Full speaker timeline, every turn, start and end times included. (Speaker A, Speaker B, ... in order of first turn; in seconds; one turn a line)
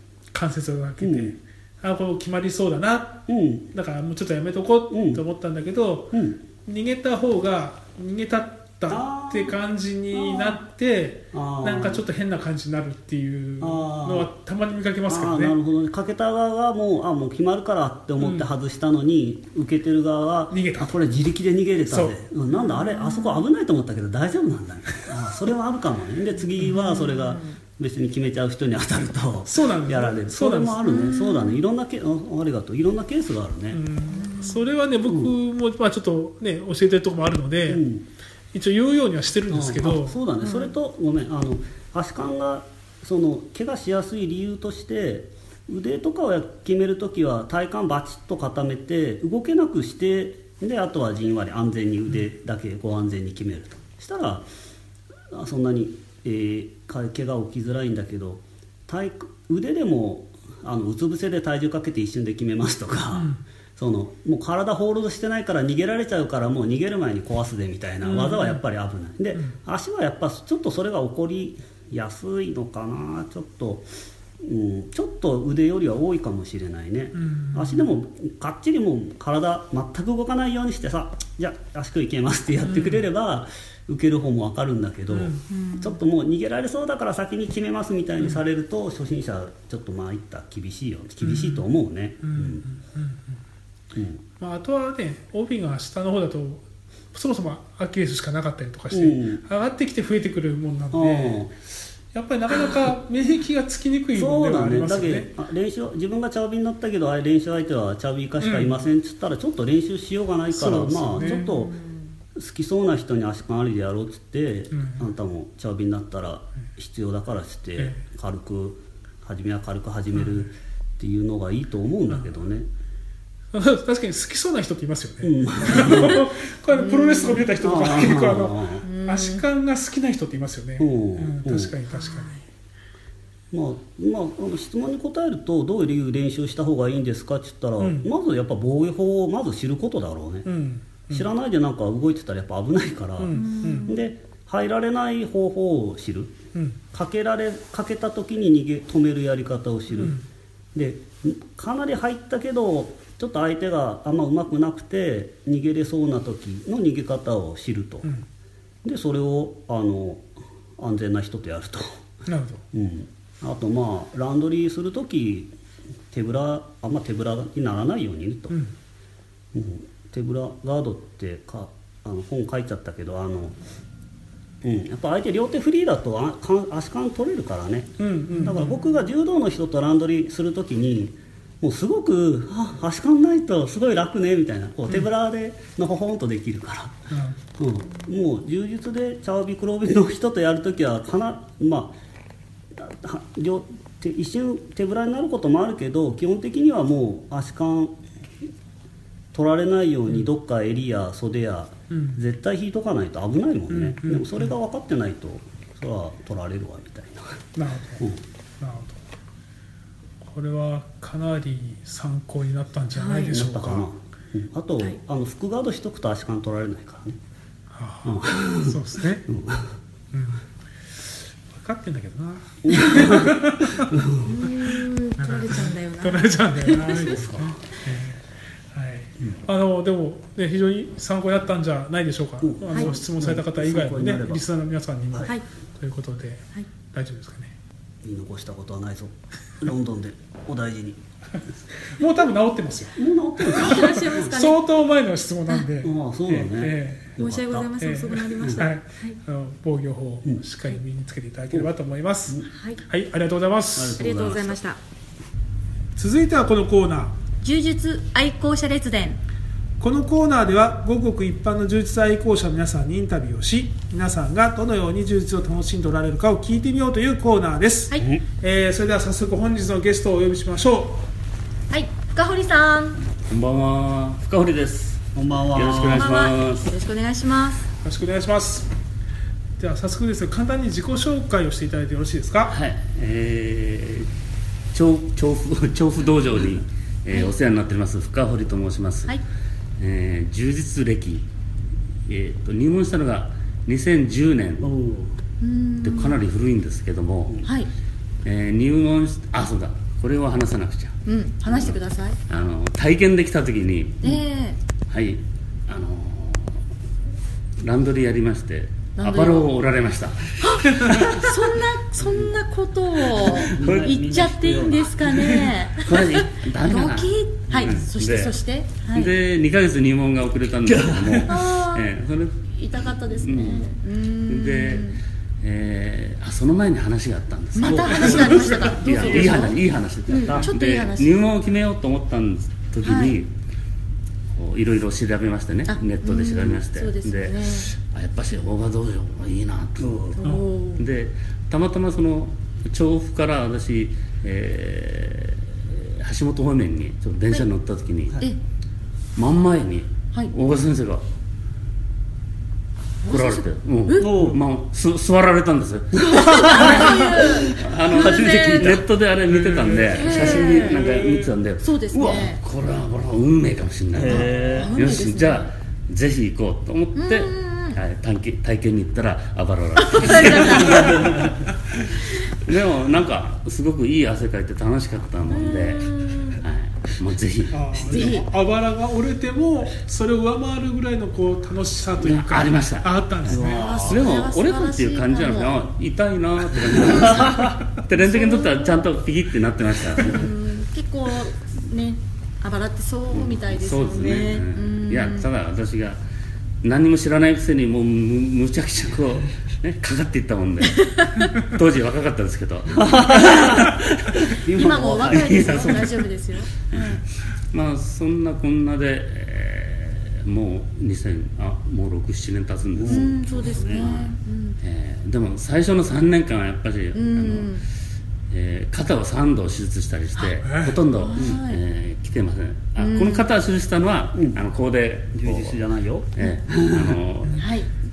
Speaker A: 0.3-15.6
Speaker B: 1.0-1.4
Speaker B: 3.3-3.7
Speaker B: 4.9-5.2
Speaker B: 6.1-6.4
Speaker B: 8.9-9.6
Speaker B: 10.1-10.6
Speaker B: 11.3-12.0
Speaker B: 13.6-14.3
Speaker B: 15.1-33.8
Speaker A: 18.2-18.5
Speaker A: 20.5-20.9
Speaker A: 21.9-22.1
Speaker C: 22.5-23.4
Speaker C: 26.8-27.6
Speaker A: 29.5-31.1
Speaker C: 30.8-31.6
Speaker A: 33.7-37.8
Speaker C: 34.1-34.6
Speaker B: 35.0-35.3
Speaker B: 37.7-38.0
Speaker A: 38.5-40.2
Speaker B: 39.5-54.5
Speaker C: 40.4-40.7
Speaker B: 55.3-73.8
Speaker A: 63.1-63.4
Speaker A: 68.0-68.6
Speaker B: 74.4-92.6
Speaker A: 77.1-77.9
Speaker A: 82.6-83.0
Speaker A: 85.1-85.4
Speaker C: 85.5-86.0
Speaker A: 91.2-91.7
Speaker A: 92.2-93.4
Speaker B: 93.9-94.2
Speaker A: 94.4-101.4
Speaker B: 98.9-99.4
Speaker B: 100.9-101.5
Speaker A: 102.1-105.3
Speaker B: 104.1-111.7
Speaker A: 108.4-108.7
Speaker A: 110.5-111.4
Speaker C: 111.2-112.1
Speaker B: 112.3-122.7
Speaker A: 114.7-115.1
Speaker A: 120.2-120.5
Speaker A: 123.5-132.3
Speaker B: 125.2-126.3
Speaker C: 126.7-127.5
Speaker B: 127.6-128.8
Speaker C: 128.8-129.4
Speaker B: 130.8-131.8
Speaker C: 131.9-132.4
Speaker B: 133.5-140.5
Speaker A: 137.8-138.1
Speaker A: 140.4-141.3
Speaker B: 141.1-146.4
Speaker A: 143.2-143.9
Speaker C: 143.3-144.0
Speaker A: 146.5-146.8
Speaker B: 146.9-150.2
Speaker A: 149.9-150.2
Speaker B: 150.7-158.1
Speaker B: 158.8-162.0
Speaker A: 162.2-162.6
Speaker B: 162.7-165.5
Speaker B: 166.1-168.6
Speaker B: 169.5-173.6
Speaker B: 174.6-187.0
Speaker A: 178.0-178.8
Speaker A: 187.1-187.4
Speaker B: 187.6-191.9
Speaker B: 192.7-198.0
Speaker B: 199.3-207.4
Speaker A: 201.9-202.2
Speaker A: 203.7-204.5
Speaker A: 207.5-208.0
Speaker A: 208.6-209.0
Speaker A: 210.2-213.9
Speaker C: 212.9-213.3
Speaker B: 213.2-217.2
Speaker A: 217.7-219.3
Speaker B: 218.0-219.7
Speaker A: 220.1-220.4
Speaker A: 221.5-237.5
Speaker B: 222.6-224.3
Speaker C: 224.2-227.2
Speaker B: 226.8-227.6
Speaker B: 232.4-234.4
Speaker B: 238.0-241.0
Speaker A: 241.9-247.1
Speaker B: 242.9-244.2
Speaker C: 243.4-244.6
Speaker B: 245.8-247.7
Speaker C: 247.2-249.2
Speaker A: 247.8-254.0
Speaker B: 248.4-248.6
Speaker C: 252.5-252.8
Speaker B: 253.7-254.6
Speaker C: 253.9-254.8
Speaker A: 255.9-257.1
Speaker C: 257.4-259.2
Speaker A: 259.8-271.1
Speaker C: 271.7-273.0
Speaker D: 273.3-276.7
Speaker B: 275.1-276.1
Speaker C: 275.9-277.7
Speaker A: 277.8-278.7
Speaker A: 279.6-282.5
Speaker D: 282.5-284.1
Speaker D: 284.7-289.2
Speaker D: 289.8-291.2
Speaker D: 292.1-294.7
Speaker B: 294.6-295.2
Speaker C: 295.4-296.2
Speaker D: 295.8-297.4
Speaker C: 297.4-297.7
Speaker D: 298.2-300.9
Speaker C: 301.1-302.2
Speaker D: 301.5-301.8
Speaker D: 302.3-304.1
Speaker C: 304.0-304.6
Speaker D: 304.9-306.6
Speaker D: 307.6-311.3
Speaker C: 309.0-309.5
Speaker C: 310.4-319.1
Speaker D: 313.2-313.9
Speaker B: 313.3-315.5
Speaker D: 315.8-318.3
Speaker D: 318.9-322.4
Speaker B: 320.6-321.3
Speaker C: 321.2-321.9
Speaker C: 322.5-325.0
Speaker D: 323.1-323.7
Speaker D: 324.3-324.9
Speaker D: 325.4-333.3
Speaker C: 327.5-331.2
Speaker B: 327.6-328.6
Speaker A: 327.9-329.4
Speaker B: 330.1-330.5
Speaker C: 332.8-333.2
Speaker D: 334.3-348.2
Speaker C: 335.7-337.7
Speaker B: 339.8-340.2
Speaker C: 340.2-340.9
Speaker D: 349.1-351.0
Speaker C: 353.0-354.3
Speaker D: 353.1-378.1
Speaker B: 354.0-354.4
Speaker B: 355.9-358.9
Speaker C: 356.1-358.8
Speaker A: 359.4-360.8
Speaker B: 359.6-360.4
Speaker C: 359.9-360.8
Speaker C: 361.6-362.4
Speaker B: 363.9-364.7
Speaker C: 364.0-365.5
Speaker C: 366.9-367.8
Speaker C: 369.8-371.3
Speaker B: 370.8-371.3
Speaker C: 375.3-376.4
Speaker A: 377.5-383.6
Speaker C: 377.8-378.2
Speaker D: 382.0-390.3
Speaker B: 383.3-384.1
Speaker C: 383.4-385.6
Speaker B: 386.7-387.5
Speaker C: 387.9-388.9
Speaker C: 390.0-395.3
Speaker D: 393.1-396.0
Speaker D: 396.6-406.1
Speaker C: 400.8-401.4
Speaker B: 402.7-405.9
Speaker C: 404.5-407.0
Speaker D: 406.7-417.6
Speaker B: 412.7-413.9
Speaker C: 412.8-414.6
Speaker C: 416.9-417.6
Speaker D: 418.3-425.6
Speaker A: 420.4-420.8
Speaker C: 420.9-421.6
Speaker C: 422.8-423.3
Speaker B: 424.1-424.4
Speaker B: 425.1-427.0
Speaker D: 426.1-427.5
Speaker C: 427.4-427.7